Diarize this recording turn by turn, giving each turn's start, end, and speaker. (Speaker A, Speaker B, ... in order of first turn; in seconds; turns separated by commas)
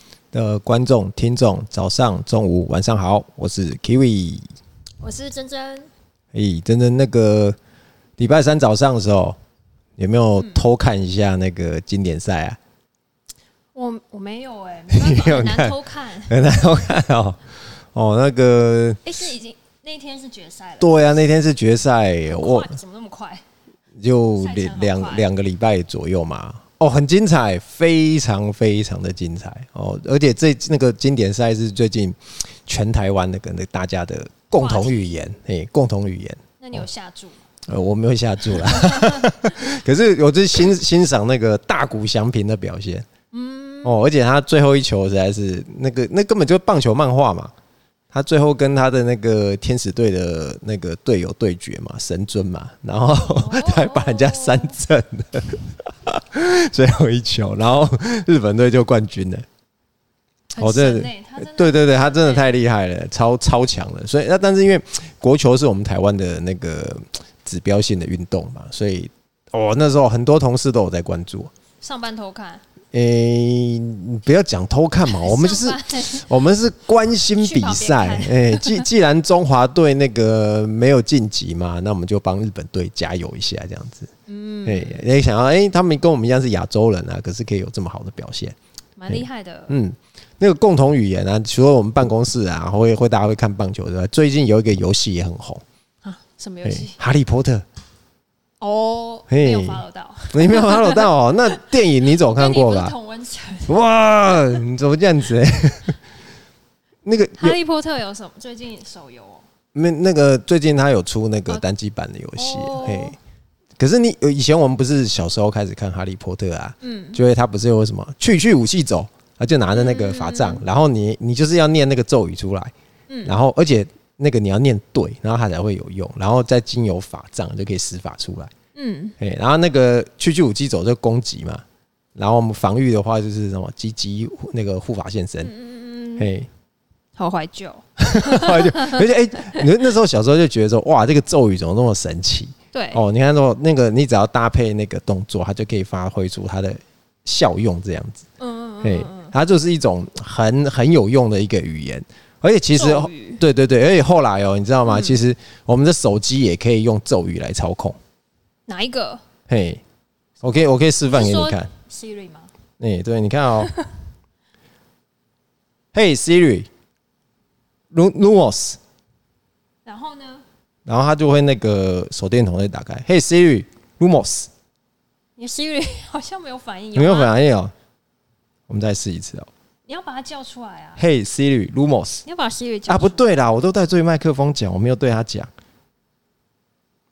Speaker A: 0.3-4.5, Speaker B: 5.0-5.9, Speaker A: 6.3-7.5, Speaker A: 8.2-9.4, Speaker A: 10.0-12.6, Speaker B: 10.4-10.6, Speaker B: 13.7-16.4, Speaker A: 14.9-15.7, Speaker A: 16.3-19.0, Speaker B: 19.0-21.2, Speaker A: 20.8-22.7, Speaker B: 22.3-23.4, Speaker A: 24.0-36.9, Speaker B: 24.4-25.3, Speaker B: 34.5-35.1, Speaker B: 36.6-37.4, Speaker A: 37.7-43.1, Speaker B: 38.8-39.2, Speaker B: 43.3-44.0, Speaker A: 43.8-47.5, Speaker A: 48.1-59.4, Speaker B: 53.1-54.8, Speaker B: 60.5-62.5, Speaker A: 60.6-71.5, Speaker B: 71.8-72.6, Speaker A: 72.9-84.1, Speaker B: 75.1-76.3, Speaker B: 77.3-78.9, Speaker B: 84.3-85.1, Speaker A: 84.6-88.5, Speaker B: 89.0-89.7, Speaker A: 89.1-95.6, Speaker B: 96.0-97.0, Speaker A: 96.6-97.6, Speaker B: 98.6-103.7, Speaker A: 99.3-102.9, Speaker A: 103.7-106.0, Speaker A: 107.0-107.6, Speaker B: 107.4-109.5, Speaker A: 109.7-113.2, Speaker B: 112.3-113.2, Speaker A: 113.8-122.7, Speaker B: 116.8-117.2, Speaker B: 119.7-120.7, Speaker B: 123.1-123.4, Speaker A: 123.2-128.5, Speaker B: 128.7-129.2, Speaker A: 129.2-131.6, Speaker A: 132.2-135.5, Speaker B: 135.4-136.3, Speaker A: 136.2-136.5, Speaker B: 137.2-139.6, Speaker A: 138.0-148.2, Speaker B: 142.7-143.0, Speaker B: 148.4-149.3, Speaker A: 148.8-158.0, Speaker B: 152.7-153.4, Speaker B: 154.8-155.2, Speaker B: 158.7-159.2, Speaker A: 159.5-159.8, Speaker A: 160.4-161.7, Speaker B: 160.5-162.5, Speaker A: 162.8-163.7, Speaker A: 165.9-166.7, Speaker A: 167.9-168.8, Speaker B: 169.8-170.4, Speaker A: 170.9-174.5, Speaker B: 175.4-177.3, Speaker A: 176.9-177.7, Speaker A: 178.7-179.5, Speaker B: 179.8-181.0, Speaker A: 181.0-182.2, Speaker B: 182.2-183.2, Speaker A: 182.9-185.5